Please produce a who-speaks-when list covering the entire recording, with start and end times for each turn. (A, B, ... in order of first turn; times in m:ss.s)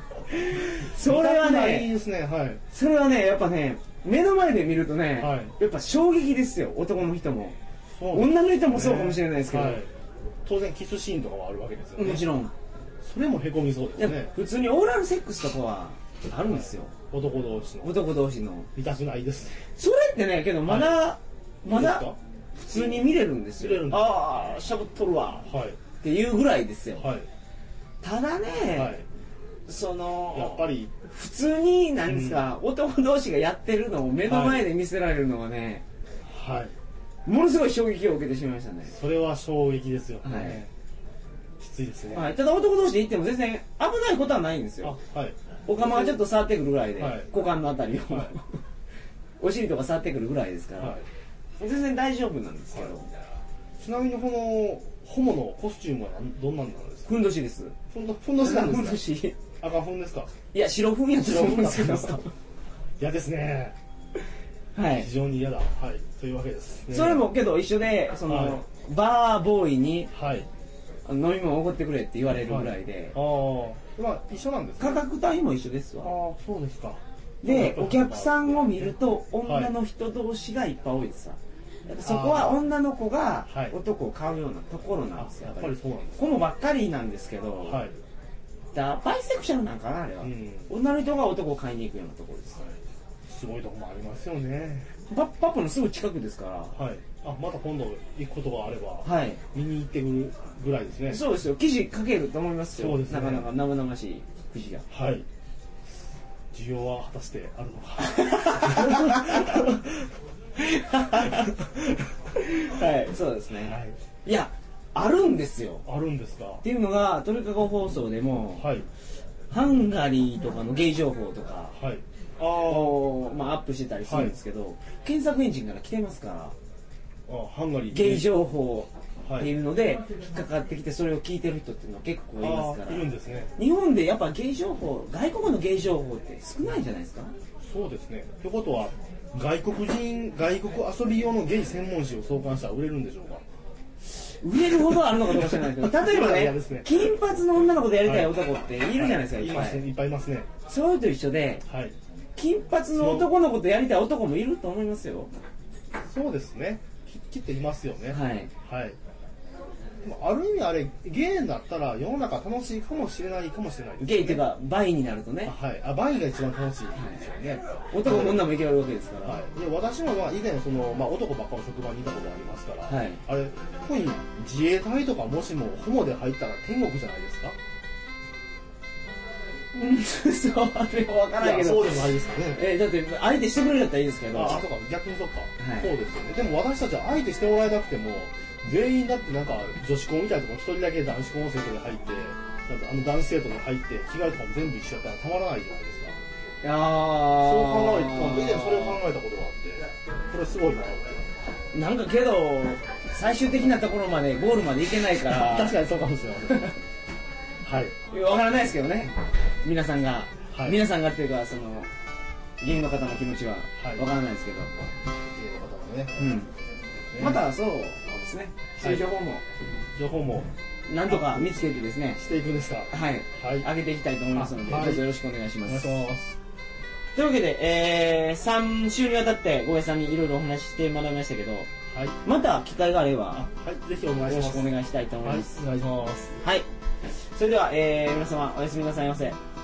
0:00.3-0:01.9 A
0:00.3-0:02.6 B
0:02.7-0:07.6 A
0:05.2-0:05.5 B
0:08.0-0:09.9 B
0:08.1-0:09.8 A
0:10.4-0:12.3 B
0:12.0-0:12.5 A
0:13.0-0:14.3 B
0:14.0-0:16.9 A
0:16.5-0:18.0 B
0:17.8-0:18.7 A
0:18.8-0:19.7 B
0:19.8-0:22.1 A
0:20.6-0:21.0 B
0:21.7-0:22.2 B
0:22.6-0:25.5 A
0:22.7-0:24.1 B
0:25.4-0:25.8 B
0:26.0-0:27.1 A
0:27.0-0:27.3 B
0:28.0-0:29.0 A
0:28.7-0:29.0 B
0:29.7-0:35.8 A
0:30.3-0:31.0 B
0:32.1-0:32.4 B
0:34.2-0:34.7 B
0:36.3-0:36.7 B
0:37.3-0:39.0 A
0:38.9-0:40.7 B
0:40.2-0:40.6 A
0:41.6-0:42.3 B
0:42.1-0:45.0 A
0:44.8-0:46.2 B
0:45.7-0:48.6 A
0:47.0-0:47.3 B
0:49.4-0:51.0 A
0:50.8-0:51.0 B
0:51.6-0:53.1 A
0:53.8-0:57.1 B
0:57.1-0:57.8 A
0:57.9-0:59.0 B
0:58.4-0:59.4 A
0:59.6-1:00.3 B
1:00.5-1:02.3 A
1:01.2-1:02.2 B
1:03.0-1:03.8 B
1:04.8-1:05.1 A
1:04.9-1:07.3 B
1:06.9-1:10.1 A
1:08.3-1:08.6 B
1:10.1-1:10.5 B
1:11.0-1:13.2 A
1:12.4-1:15.0 B
1:14.8-1:16.1 A
1:16.0-1:19.7 B
1:17.4-1:27.8 A
1:22.0-1:22.6 B
1:23.5-1:23.8 B
1:25.2-1:26.3 B
1:27.6-1:28.0 B
1:28.7-1:32.6 A
1:30.2-1:30.7 B
1:33.3-1:34.9 B
1:35.1-1:36.8 A
1:36.7-1:41.2 B
1:39.0-1:39.4 A
1:41.1-1:44.9 A
1:42.8-1:43.5 B
1:44.9-1:45.3 B
1:46.5-1:50.1 B
1:48.1-1:49.6 A
1:50.6-1:51.5 A
1:51.1-1:52.1 B
1:52.4-1:55.8 A
1:53.6-1:54.0 B
1:55.8-1:56.6 B
1:56.6-1:58.7 A
1:58.6-1:58.9 B
1:59.5-2:01.7 A
2:01.7-2:03.0 B
2:02.6-2:06.6 A
2:04.1-2:04.4 B
2:07.3-2:08.3 B
2:07.9-2:13.1 A
2:09.2-2:09.5 B
2:12.4-2:13.5 B
2:13.6-2:17.3 A
2:17.6-2:23.4 B
2:24.2-2:29.8 A
2:24.9-2:27.2 B
2:28.0-2:28.4 B
2:28.9-2:30.5 B
2:30.7-2:31.6 A
2:31.7-2:32.0 B
2:32.4-2:35.3 A
2:33.0-2:33.3 B
2:36.1-2:39.0 B
2:38.1-2:38.5 A
2:40.0-2:44.4 B
2:44.0-2:45.6 A
2:45.4-2:48.5 B
2:47.9-2:49.4 A
2:49.2-2:57.6 B
2:52.9-2:53.2 A
2:59.7-3:04.7 A
3:01.4-3:02.7 B
3:04.3-3:16.2 B
3:05.6-3:05.9 A
3:16.6-3:19.0 A
3:17.3-3:21.2 B
3:21.7-3:25.8 A
3:25.3-3:26.7 B
3:27.6-3:28.0 B
3:28.1-3:31.9 A
3:30.5-3:30.8 B
3:32.6-3:34.7 A
3:33.8-3:34.1 B
3:35.3-3:36.4 B
3:36.2-3:36.5 A
3:37.1-3:37.4 B
3:37.2-3:39.4 A
3:38.8-3:39.1 B
3:40.0-3:40.5 B
3:40.9-3:42.2 A
3:41.1-3:43.7 B
3:42.9-3:46.0 A
3:44.3-3:45.1 B
3:45.6-3:46.4 B
3:47.2-3:51.7 A
3:51.9-3:52.2 B
3:52.2-3:53.5 A
3:53.3-3:56.4 B
3:54.3-3:55.6 A
3:57.3-3:59.4 A